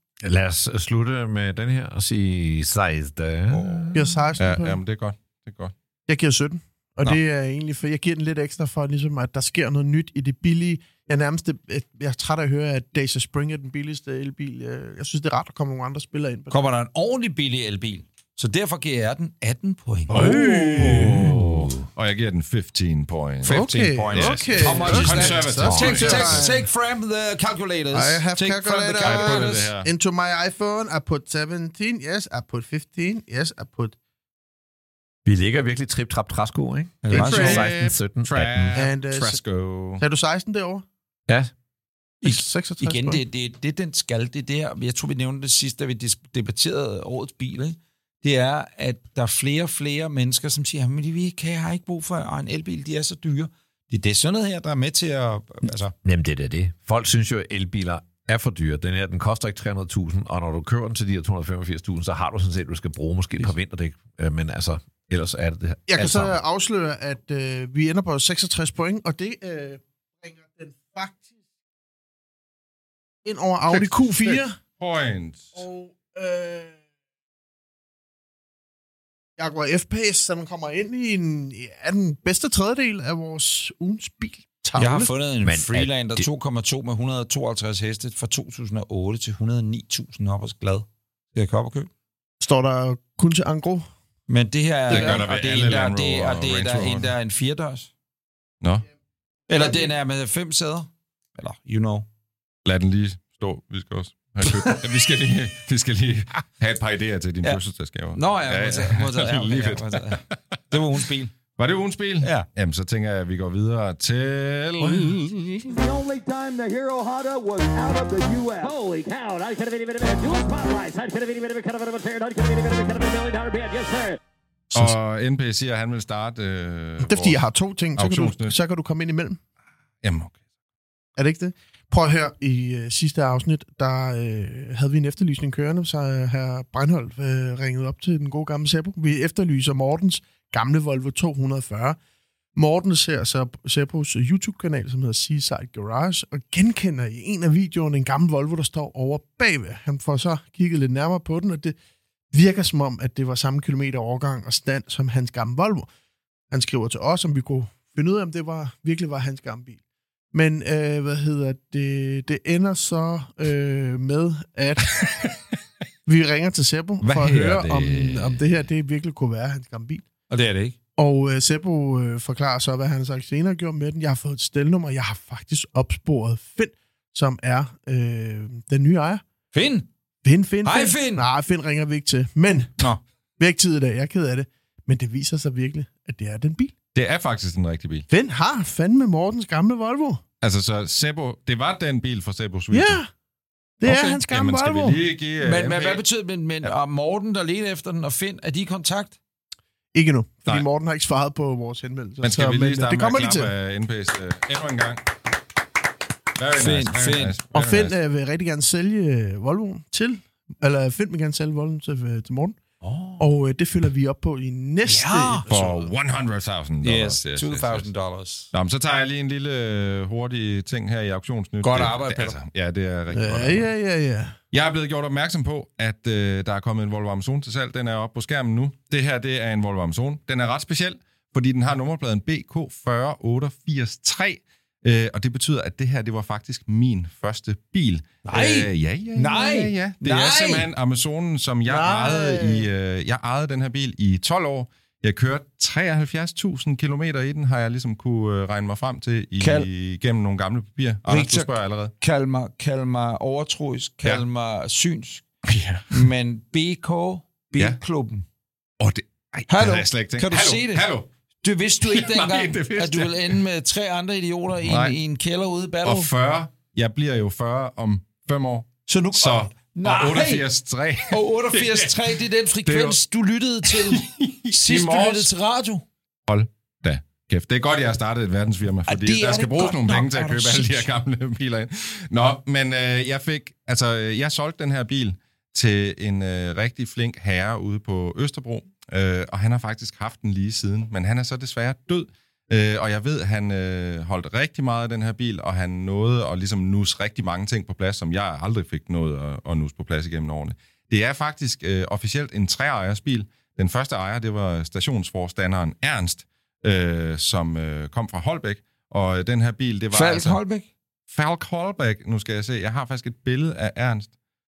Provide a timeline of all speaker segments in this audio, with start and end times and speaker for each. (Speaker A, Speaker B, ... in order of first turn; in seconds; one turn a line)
Speaker A: 0.2-4.2
Speaker B: 3.5-3.9
Speaker C: 3.9-4.8
Speaker D: 4.4-5.7
Speaker C: 6.1-16.6
Speaker B: 16.5-20.2
Speaker D: 20.1-26.5
Speaker C: 20.1-21.2
Speaker A: 20.2-21.9
Speaker B: 23.4-29.7
Speaker C: 23.5-26.6
Speaker A: 24.7-26.4
Speaker C: 27.9-34.0
Speaker D: 29.0-29.9
Speaker A: 35.2-38.9
Speaker B: 37.0-37.7
Speaker D: 37.1-40.0
Speaker C: 38.8-39.4
Speaker C: 40.0-40.9
Speaker B: 42.2-55.9
Speaker C: 42.2-43.2
Speaker A: 56.0-66.4
Speaker C: 65.9-71.3
Speaker C: 73.2-74.5
Speaker D: 73.7-75.6
Speaker C: 75.6-76.8
Speaker C: 79.4-85.1
Speaker B: 84.8-91.9
Speaker A: 85.4-86.3
Speaker C: 92.4-93.9
Speaker B: 94.3-97.9
Speaker D: 94.9-97.1
Speaker B: 99.5-102.1
Speaker D: 102.7-110.4
Speaker B: 104.5-104.8
Speaker B: 108.1-111.3
Speaker D: 111.6-115.2
Speaker B: 114.8-115.2
Speaker E: 115.7-124.2
Speaker D: 124.7-127.4
Speaker C: 127.0-129.4
Speaker D: 128.0-128.6
Speaker D: 130.0-130.4
Speaker C: 131.2-142.0
Speaker C: 142.6-151.8
Speaker C: 152.3-155.9
Speaker C: 156.5-159.8
Speaker C: 160.3-165.1
Speaker C: 166.1-170.1
Speaker D: 167.0-168.4
Speaker B: 170.3-170.8
Speaker C: 171.0-179.2
Speaker B: 179.5-179.9
Speaker C: 180.2-182.7
Speaker B: 180.6-181.3
Speaker C: 183.4-186.7
Speaker D: 186.9-188.1
Speaker C: 188.1-190.2
Speaker D: 190.4-193.0
Speaker C: 192.7-193.1
Speaker C: 193.8-195.0
Speaker D: 193.8-196.0
Speaker B: 195.4-199.2
Speaker C: 199.9-203.5
Speaker D: 202.2-205.0
Speaker D: 206.4-207.9
Speaker B: 206.6-207.4
Speaker C: 207.5-212.6
Speaker B: 212.8-213.3
Speaker C: 213.2-215.9
Speaker B: 214.9-215.5
Speaker D: 215.5-217.9
Speaker B: 216.8-218.5
Speaker D: 218.5-223.7
Speaker B: 221.6-222.4
Speaker C: 223.1-224.3
Speaker D: 224.5-251.9
Speaker B: 238.3-240.7
Speaker C: 241.7-242.7
Speaker B: 249.4-249.7
Speaker B: 251.1-255.2
Speaker D: 255.4-256.1
Speaker B: 255.9-258.2
Speaker D: 258.8-261.1
Speaker B: 259.5-260.9
Speaker B: 261.4-266.1
Speaker D: 261.8-263.4
Speaker D: 264.6-264.9
Speaker D: 265.8-272.0
Speaker B: 268.9-270.5
Speaker B: 271.1-275.9
Speaker D: 272.7-273.0
Speaker D: 273.6-275.3
Speaker D: 276.3-310.4
Speaker B: 278.9-280.9
Speaker B: 309.9-310.7
Speaker D: 311.1-314.1